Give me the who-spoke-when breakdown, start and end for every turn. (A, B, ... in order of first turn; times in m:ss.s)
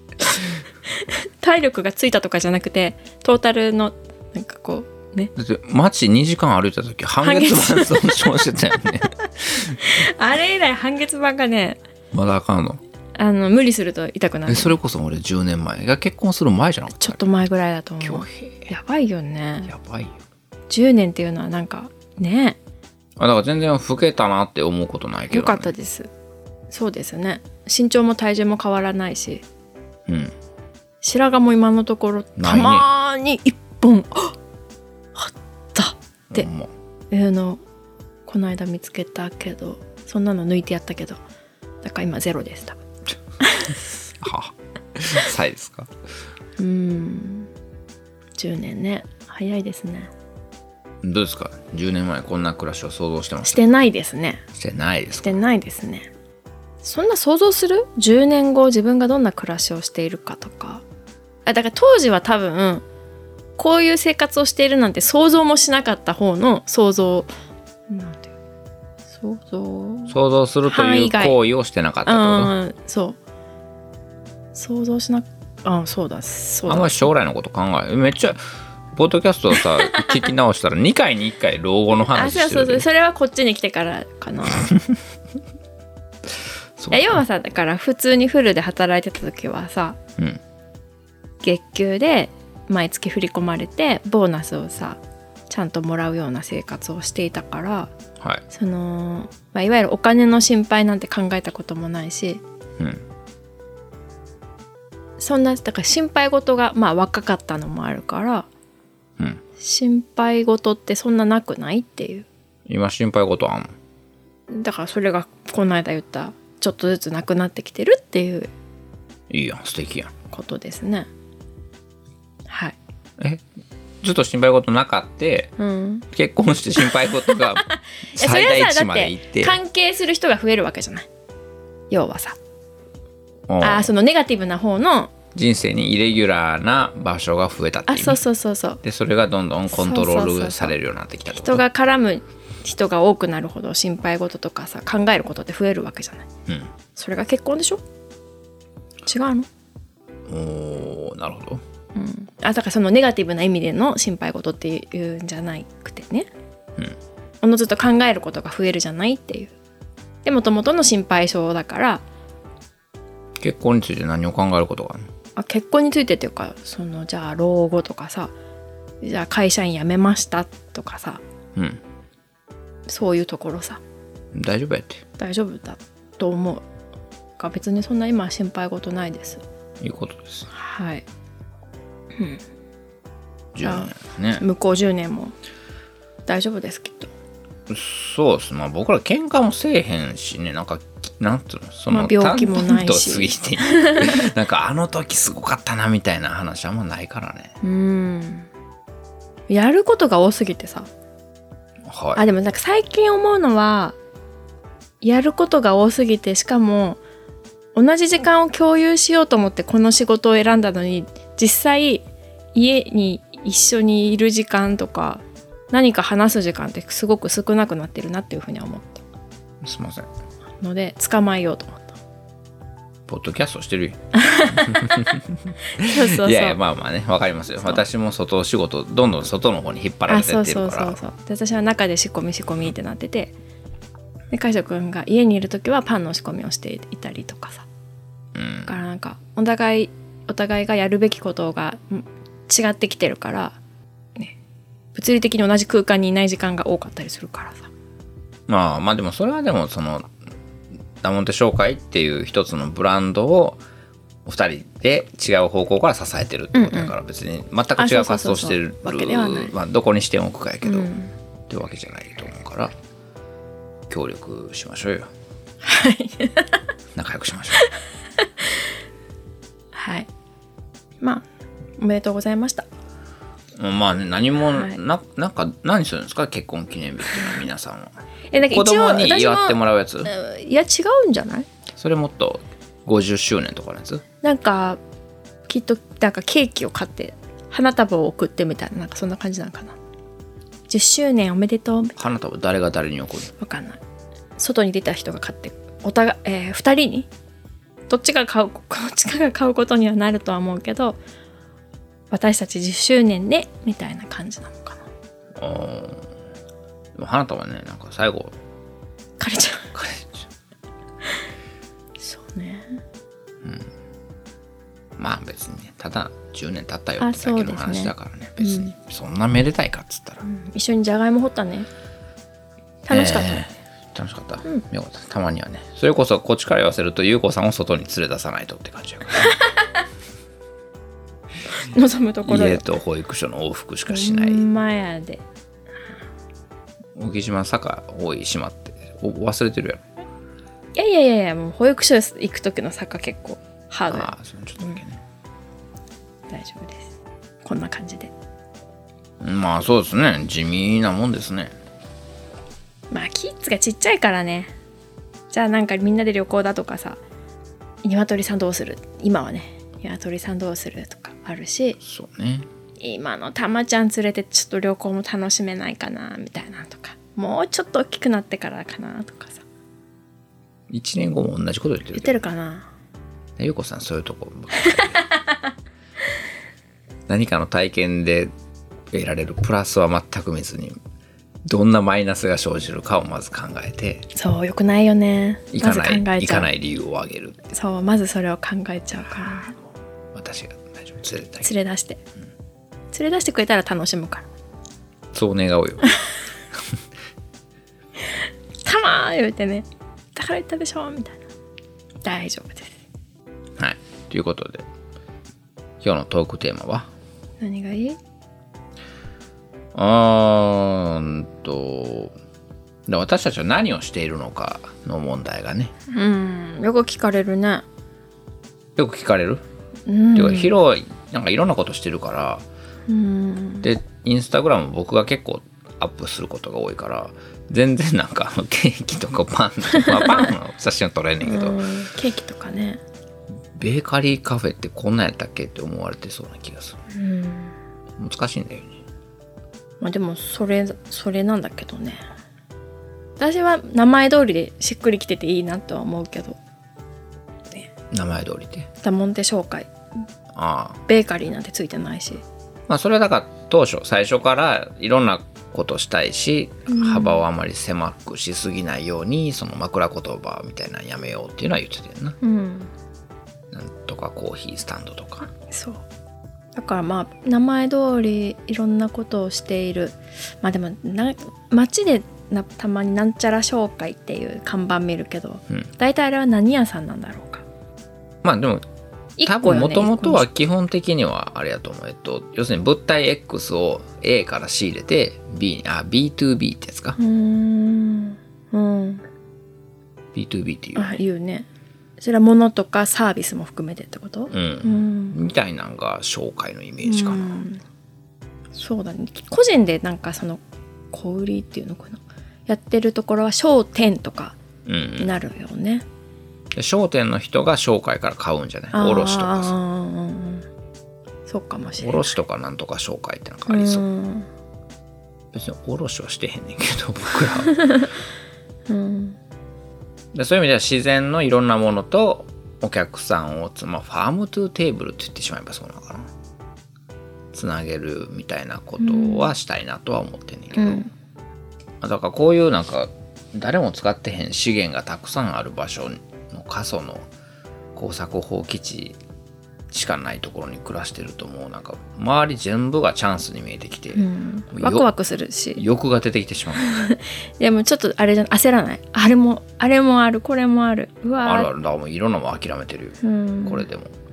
0:00.9-0:05.3 A
0:05.4-0:09.8 B
0:07.2-0:08.2 A
0:09.6-0:11.8 A
0:12.1-0:12.8 B
0:13.2-0:14.8 A
0:14.5-0:17.2 B
0:16.9-0:19.7 A
0:18.0-0:18.7 B
0:19.7-0:20.2 B
0:20.7-0:22.6 A
0:23.2-0:25.7 B
0:25.3-0:26.1 A
0:26.7-0:29.4 A
0:30.1-0:30.3 B
0:31.0-0:34.3 A
0:32.4-0:32.8 B
0:35.1-0:36.5 A
0:36.3-0:36.7 B
0:37.1-0:37.6 A
0:38.3-0:41.2 A
0:41.8-0:42.8 A
0:43.4-0:43.8 A
0:44.2-0:45.9 B
0:46.6-0:47.5 A
0:48.4-0:50.1 A
0:51.0-0:53.6 B
0:53.4-0:54.4 A
0:54.5-0:55.4 B
0:55.2-0:56.1 A
0:56.8-1:00.8 A
1:01.4-1:02.8 A
1:03.6-1:07.3 A
1:07.9-1:08.3 A
1:09.1-1:10.2 A
1:10.1-1:12.5 B
1:10.7-1:11.4 A
1:12.0-1:13.2 A
1:14.5-1:17.1 A
1:16.7-1:18.4 B
1:18.9-1:22.9 B
1:19.6-1:20.2 A
1:22.1-1:24.8 A
1:26.8-1:27.2 B
1:26.9-1:30.0 A
1:31.4-1:37.9 A
1:38.5-1:42.4 A
1:42.8-1:43.0 B
1:45.2-1:48.5 A
1:49.6-1:52.3 A
1:52.7-1:53.8 B
1:54.5-1:58.5 A
1:59.3-2:00.1 B
2:00.3-2:01.1 A
2:02.5-2:02.8 A
2:03.2-2:03.4 B
2:04.0-2:05.5 B
2:05.6-2:06.0 A
2:06.1-2:09.6 B
2:06.8-2:11.1 A
2:11.9-2:12.4 A
2:13.5-2:13.9 B
2:13.6-2:15.1 A
2:15.3-2:18.2 B
2:17.9-2:18.8 A
2:18.8-2:21.6 B
2:19.7-2:20.7 A
2:21.4-2:26.3 A
2:26.9-2:27.8 A
2:29.0-2:29.5 A
2:30.3-2:31.6 B
2:31.9-2:36.3 A
2:37.4-2:39.5 A
2:40.2-2:42.0 A
2:43.4-2:45.1 B
2:45.4-2:48.3 A
2:49.0-2:51.2 A
2:51.6-2:51.8 B
2:52.9-2:53.8 A
2:54.3-2:55.0 B
2:55.2-2:56.6 A
2:57.4-2:59.4 A
2:59.8-3:00.5 B
3:00.5-3:01.0 A
3:02.2-3:02.4 A
3:03.5-3:04.4 B
3:03.6-3:05.3 A
3:06.3-3:07.1 A
3:07.7-3:17.5 B
3:11.9-3:14.3 A
3:17.6-3:18.5 A
3:19.5-3:20.9 A
3:21.8-3:22.2 B
3:22.1-3:24.0 A
3:25.0-3:27.0 A
3:27.7-3:39.0 A
3:39.6-3:40.1 B
3:40.6-3:42.0 A
3:43.1-3:51.0 B
3:44.1-3:45.2 A
3:45.7-3:46.6 A
3:50.1-3:53.3 A
3:54.3-3:57.6 A
3:58.3-3:58.7 B
3:58.6-4:03.6 A
4:04.9-4:07.7 A
4:08.5-4:10.1 B
4:11.0-4:13.6 B
4:14.2-4:20.9 B
4:16.5-4:16.9 A
4:17.8-4:19.5 A
4:20.6-4:21.1 A
4:21.5-4:22.7 B
4:23.9-4:25.1 B
4:25.6-4:26.6 A
4:26.9-4:27.6 B
4:28.2-4:28.6 A
4:29.7-4:30.1 A
4:31.0-4:31.2 A
4:31.8-4:32.6 A
4:33.5-4:40.1 B
4:37.1-4:37.3 A
4:38.3-4:41.5 A
4:41.8-4:44.0 B
4:44.2-4:44.8 A
4:45.5-4:49.8 A
4:50.7-4:52.0 A
4:52.0-4:53.3 B
4:53.4-4:53.8 A
4:54.4-4:57.1 A
4:57.9-5:01.0 A
5:02.1-5:04.9 A
5:05.4-5:06.1 B
5:07.0-5:08.4 B
5:09.2-5:09.7 A
5:09.7-5:10.2 B
5:12.0-5:12.8 A
5:13.4-5:13.7 B
5:15.0-5:20.2 B
5:17.0-5:18.7 A
5:20.2-5:21.7 A
5:22.8-5:23.4 A
5:22.9-5:29.4 B
5:29.2-5:29.7 A
5:31.5-5:32.7 A
5:32.2-5:34.4 B
5:33.9-5:35.2 A
5:37.0-5:39.8 B
5:40.8-5:44.1 A
5:43.9-5:45.0 B
5:46.3-5:46.9 A
5:47.4-5:48.1 A
5:49.2-5:51.5 B
5:52.9-5:54.5 A
5:55.3-5:57.0 A
5:57.8-6:01.8 A
6:01.8-6:02.5 B
6:02.8-6:09.4 A
6:10.7-6:12.2 B
6:11.9-6:12.7 A
6:13.4-6:15.0 B
6:14.5-6:15.5 A
6:17.1-6:18.3 B
6:18.9-6:20.8 B
6:21.4-6:24.0 B
6:24.1-6:26.5 A
6:25.5-6:27.5 B
6:27.5-6:29.5 A
6:30.1-6:31.5 B
6:31.4-6:32.0 A
6:32.9-6:34.2 A
6:35.1-6:35.9 B
6:38.6-6:41.2 A
6:42.0-6:42.8 A
6:43.6-6:44.6 B
6:45.8-6:46.9 B
6:47.4-6:48.0 A
6:49.7-6:52.1 B
6:52.9-6:55.7 B
6:55.9-6:57.6 A
6:58.8-6:59.4 B
6:59.9-7:00.5 A
7:00.1-7:02.4 B
7:02.9-7:03.7 A
7:03.6-7:11.6 B
7:09.7-7:10.3 A
7:11.2-7:12.8 A
7:13.5-7:16.8 B
7:16.9-7:17.5 A
7:18.0-7:18.8 B
7:19.8-7:22.0 A
7:23.2-7:26.4 A
7:27.9-7:28.7 B
7:28.8-7:29.7 A
7:30.3-7:30.8 B
7:30.9-7:32.2 A
7:32.7-7:42.2 B
7:36.7-7:37.2 A
7:42.2-7:42.7 A
7:43.5-7:45.3 B
7:45.5-7:45.8 A
7:46.6-7:57.4 A
7:58.2-7:58.6 B
7:59.2-8:00.2 A
7:59.2-8:07.0 B
8:07.0-8:09.0 A
8:10.1-8:11.0 B
8:10.7-8:11.5 A
8:12.0-8:15.2 A
8:14.3-8:17.4 B
8:16.8-8:17.6 A
8:18.5-8:20.4 A
8:20.9-8:24.4 A
8:24.6-8:25.1 B
8:25.0-8:25.8 A
8:26.5-8:29.5 B
8:28.7-8:30.4 A
8:31.3-8:32.1 A
8:31.8-8:33.8 B
8:33.5-8:34.3 A
8:35.3-8:37.7 B
8:37.4-8:37.9 A
8:38.7-8:39.2 A
8:40.1-8:46.1 B
8:47.3-8:50.8 B
8:48.8-8:49.3 A
8:50.5-8:50.9 A
8:51.8-8:57.1 B
8:57.7-8:59.0 B
8:59.7-9:04.8 B
9:03.9-9:05.6 A
9:05.6-9:06.9 B
9:06.6-9:11.5 A
9:11.2-9:13.9 B
9:13.0-9:13.6 A